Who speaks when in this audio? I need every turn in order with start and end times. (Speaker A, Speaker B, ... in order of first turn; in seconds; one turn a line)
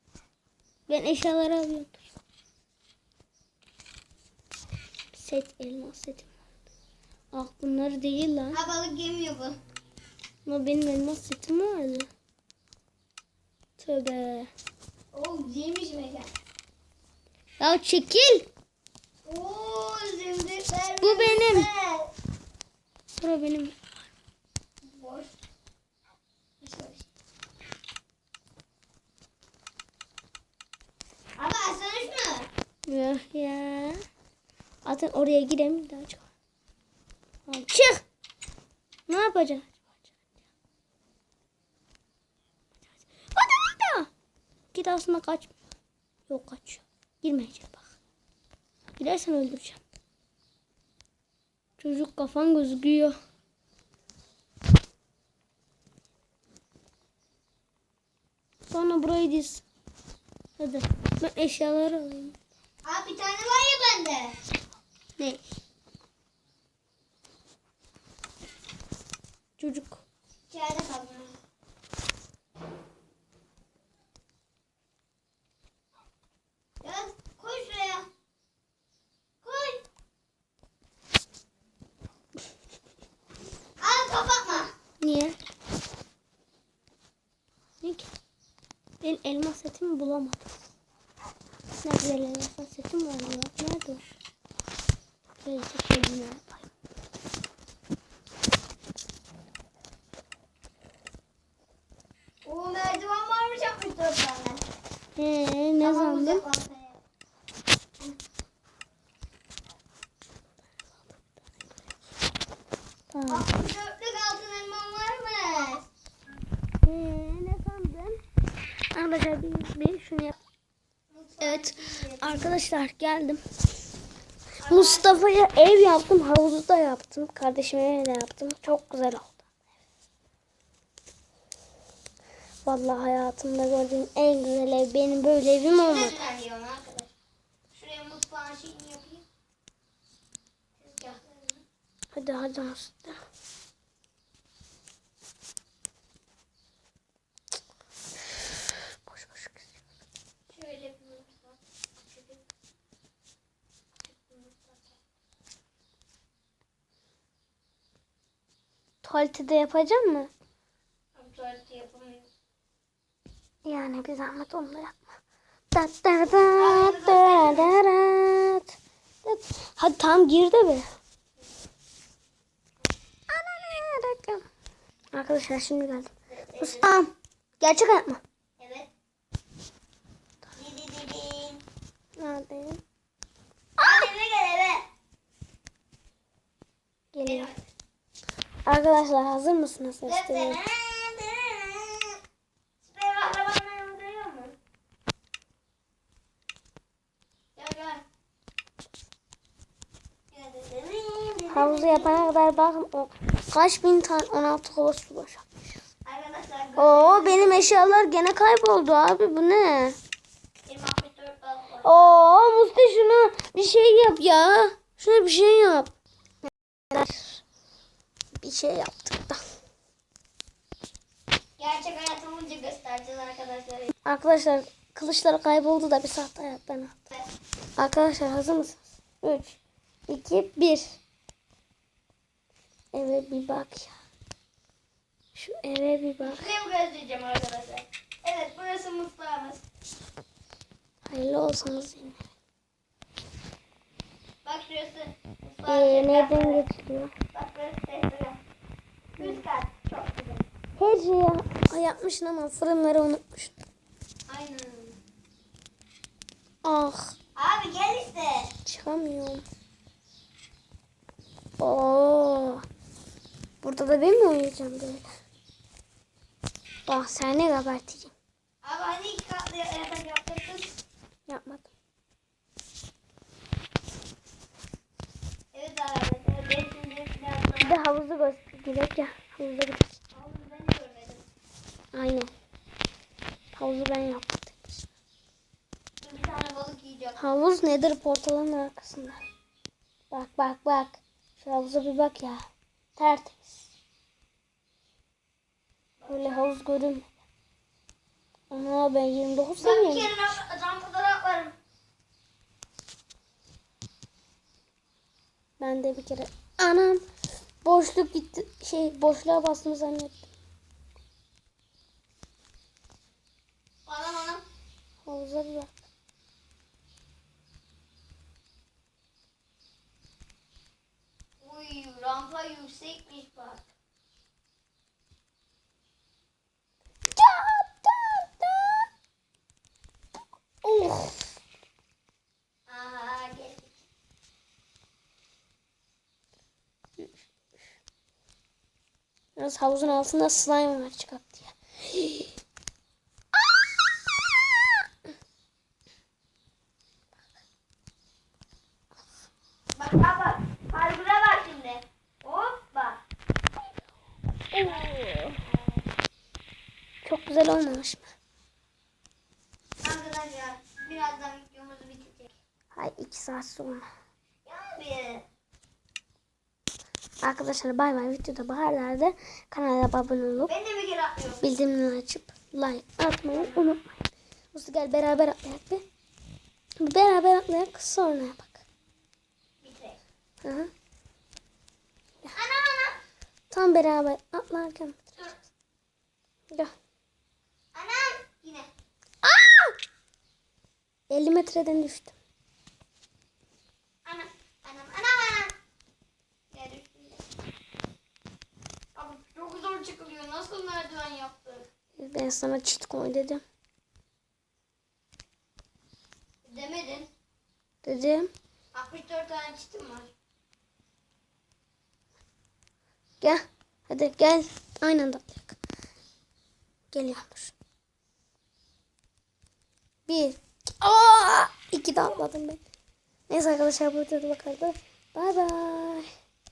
Speaker A: 0.9-2.0
Speaker A: 5.1-6.3
Speaker A: 7.3-8.6
Speaker B: 8.5-9.6
Speaker A: 10.4-12.1
Speaker A: 13.8-14.5
Speaker B: 15.1-16.3
Speaker A: 17.6-18.5
Speaker B: 19.2-22.1
Speaker A: 21.0-21.7
Speaker A: 23.2-23.8
Speaker B: 24.8-25.3
Speaker B: 26.6-27.1
Speaker B: 31.4-32.5
Speaker A: 32.9-34.0
Speaker A: 34.8-36.2
Speaker A: 37.5-38.0
Speaker A: 39.1-40.1
Speaker A: 43.3-44.1
Speaker A: 44.7-45.5
Speaker A: 46.3-47.9
Speaker A: 49.0-49.8
Speaker A: 51.8-53.1
Speaker A: 58.7-59.6
Speaker A: 60.6-62.4
Speaker B: 62.8-64.4
Speaker A: 69.6-70.0
Speaker B: 70.5-71.4
Speaker B: 76.8-78.1
Speaker B: 79.4-79.8
Speaker B: 83.8-84.7
Speaker A: 85.0-85.3
Speaker A: 87.8-88.1
Speaker A: 89.0-90.5
Speaker A: 91.8-94.0
Speaker A: 95.4-96.7
Speaker B: 102.4-104.6
Speaker A: 105.2-106.4
Speaker B: 105.8-107.0
Speaker A: 113.1-113.5
Speaker B: 113.3-115.9
Speaker A: 116.8-118.2
Speaker A: 118.9-120.4
Speaker B: 121.1-122.5
Speaker A: 121.4-123.4
Speaker B: 124.6-125.1
Speaker A: 124.7-129.4
Speaker A: 132.6-136.2
Speaker B: 135.8-137.1
Speaker B: 137.7-139.2
Speaker B: 140.8-141.6
Speaker A: 142.1-143.2
Speaker A: 149.1-149.7
Speaker B: 150.5-152.4
Speaker B: 154.1-155.0
Speaker A: 159.0-160.3
Speaker B: 161.1-162.3
Speaker A: 163.6-165.1
Speaker A: 165.7-168.7
Speaker B: 166.6-167.8
Speaker A: 169.2-170.9
Speaker A: 173.3-174.4
Speaker A: 175.1-178.2
Speaker B: 176.3-176.9
Speaker B: 178.6-178.9
Speaker B: 180.5-181.6
Speaker A: 182.2-182.8
Speaker B: 183.8-184.8
Speaker A: 187.1-187.5
Speaker B: 187.2-187.7
Speaker A: 188.7-190.6
Speaker B: 190.0-192.2
Speaker B: 192.8-194.5
Speaker B: 197.6-198.0
Speaker B: 200.3-202.3
Speaker A: 201.5-205.8
Speaker B: 206.0-207.9
Speaker A: 206.8-210.0
Speaker B: 210.7-211.9
Speaker A: 211.8-215.9
Speaker A: 216.9-217.4
Speaker A: 218.4-219.4
Speaker B: 221.6-223.9
Speaker A: 224.0-226.9
Speaker A: 227.8-231.0
Speaker A: 232.9-234.0
Speaker A: 235.3-236.5
Speaker B: 236.2-239.6
Speaker A: 241.0-242.2
Speaker B: 244.4-246.6
Speaker A: 245.7-247.1
Speaker B: 247.3-248.4
Speaker B: 249.2-250.5
Speaker A: 250.8-253.6
Speaker B: 254.3-255.0
Speaker A: 256.6-257.1
Speaker B: 257.4-258.5
Speaker A: 258.6-259.4
Speaker A: 261.6-262.6
Speaker A: 263.6-265.1
Speaker A: 266.9-268.1
Speaker B: 268.6-270.7
Speaker A: 271.3-271.7
Speaker B: 275.5-277.8
Speaker A: 277.6-280.0
Speaker B: 280.1-281.2
Speaker A: 281.9-282.3
Speaker A: 283.5-284.9
Speaker B: 286.0-287.2
Speaker A: 287.2-289.2
Speaker A: 290.1-292.4
Speaker A: 292.9-293.6
Speaker B: 296.0-296.4
Speaker A: 296.1-297.1
Speaker A: 298.5-300.1
Speaker B: 299.6-301.5
Speaker A: 305.6-307.0
Speaker A: 307.6-310.2
Speaker B: 313.9-314.4
Speaker A: 315.0-315.7
Speaker B: 321.4-323.7
Speaker A: 327.1-328.9
Speaker A: 330.6-331.3
Speaker B: 332.7-333.8
Speaker A: 337.0-337.2
Speaker A: 339.4-342.3
Speaker B: 349.8-353.0
Speaker A: 354.5-355.4
Speaker B: 354.6-355.8
Speaker A: 357.0-358.1
Speaker B: 359.8-362.3
Speaker A: 362.7-363.9
Speaker B: 364.4-365.2
Speaker A: 367.2-370.5
Speaker B: 370.4-371.4
Speaker A: 371.4-375.8
Speaker B: 373.3-373.6
Speaker A: 376.8-378.6
Speaker B: 379.6-380.0
Speaker A: 380.4-380.7
Speaker B: 382.3-383.0
Speaker A: 383.5-385.2
Speaker B: 387.7-388.7
Speaker A: 389.2-389.7
Speaker A: 391.1-392.1
Speaker B: 394.0-395.5
Speaker B: 396.5-397.2
Speaker B: 398.9-401.6
Speaker A: 401.9-403.4
Speaker B: 406.4-407.1
Speaker A: 407.8-408.3
Speaker B: 408.7-410.1
Speaker A: 413.2-415.6
Speaker A: 416.9-417.5
Speaker A: 420.1-422.6
Speaker A: 423.3-426.1